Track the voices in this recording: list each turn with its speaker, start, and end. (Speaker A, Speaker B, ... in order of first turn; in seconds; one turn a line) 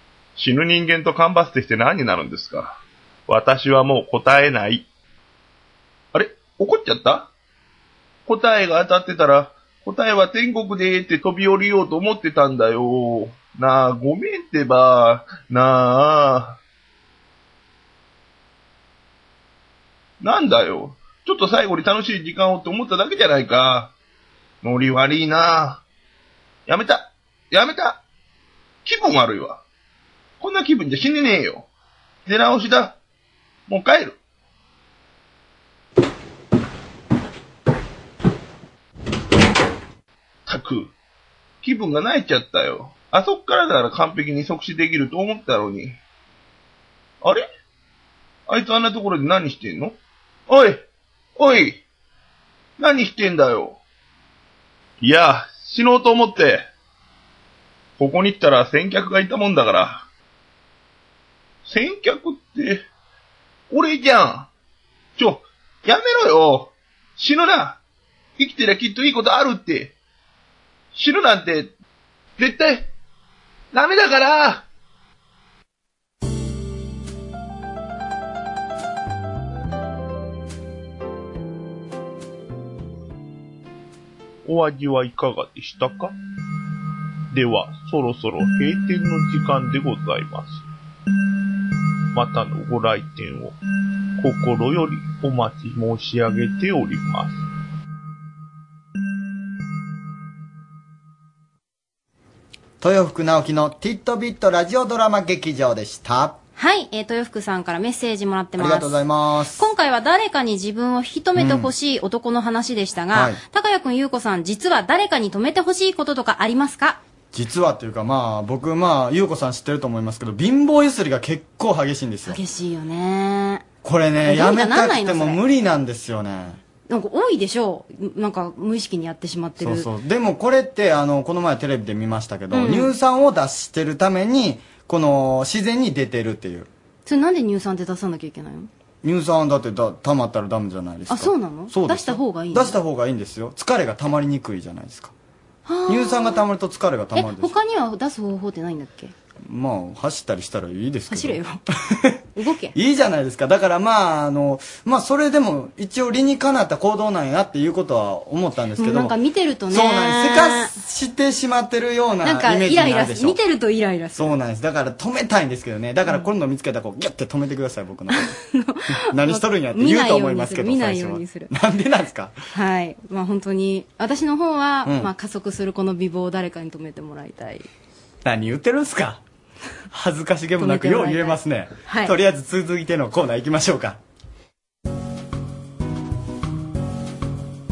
Speaker A: 0.3-4.8
Speaker A: 6.1-7.3
Speaker A: 8.2-16.6
Speaker A: 20.2-23.9
Speaker A: 24.6-25.8
Speaker A: 26.7-28.0
Speaker A: 28.8-29.6
Speaker A: 30.4-31.7
Speaker A: 32.2-33.0
Speaker A: 33.7-34.2
Speaker A: 40.5-40.9
Speaker A: 41.6-46.0
Speaker A: 48.5-50.0
Speaker A: 50.5-50.8
Speaker A: 51.4-51.8
Speaker A: 52.8-53.8
Speaker A: 55.0-56.7
Speaker A: 58.0-60.0
Speaker A: 61.6-62.9
Speaker A: 63.7-64.5
Speaker A: 65.2-67.8
Speaker A: 68.4-69.9
Speaker A: 70.9-71.7
Speaker A: 72.4-72.9
Speaker A: 73.7-74.6
Speaker B: 84.4-86.1
Speaker B: 87.3-90.6
Speaker B: 92.1-93.5
Speaker B: 94.2-97.4
Speaker C: 102.8-106.4
Speaker D: 106.6-109.0
Speaker C: 108.6-109.6
Speaker D: 109.6-117.0
Speaker C: 111.3-111.7
Speaker C: 113.1-113.4
Speaker C: 117.3-122.4
Speaker D: 122.2-123.6
Speaker C: 123.8-126.6
Speaker D: 124.2-125.4
Speaker D: 126.9-129.9
Speaker C: 129.6-136.7
Speaker D: 132.5-132.9
Speaker D: 137.1-138.7
Speaker C: 139.0-145.1
Speaker D: 141.1-142.8
Speaker D: 145.7-146.4
Speaker C: 145.9-147.5
Speaker D: 147.1-149.1
Speaker C: 149.4-151.4
Speaker D: 151.1-151.6
Speaker D: 152.3-152.7
Speaker C: 152.7-159.1
Speaker D: 158.8-160.8
Speaker C: 159.7-163.4
Speaker D: 162.2-164.3
Speaker C: 164.1-168.3
Speaker D: 168.1-171.5
Speaker C: 169.0-172.3
Speaker D: 172.5-177.7
Speaker C: 178.2-179.2
Speaker C: 179.9-184.0
Speaker D: 180.6-182.2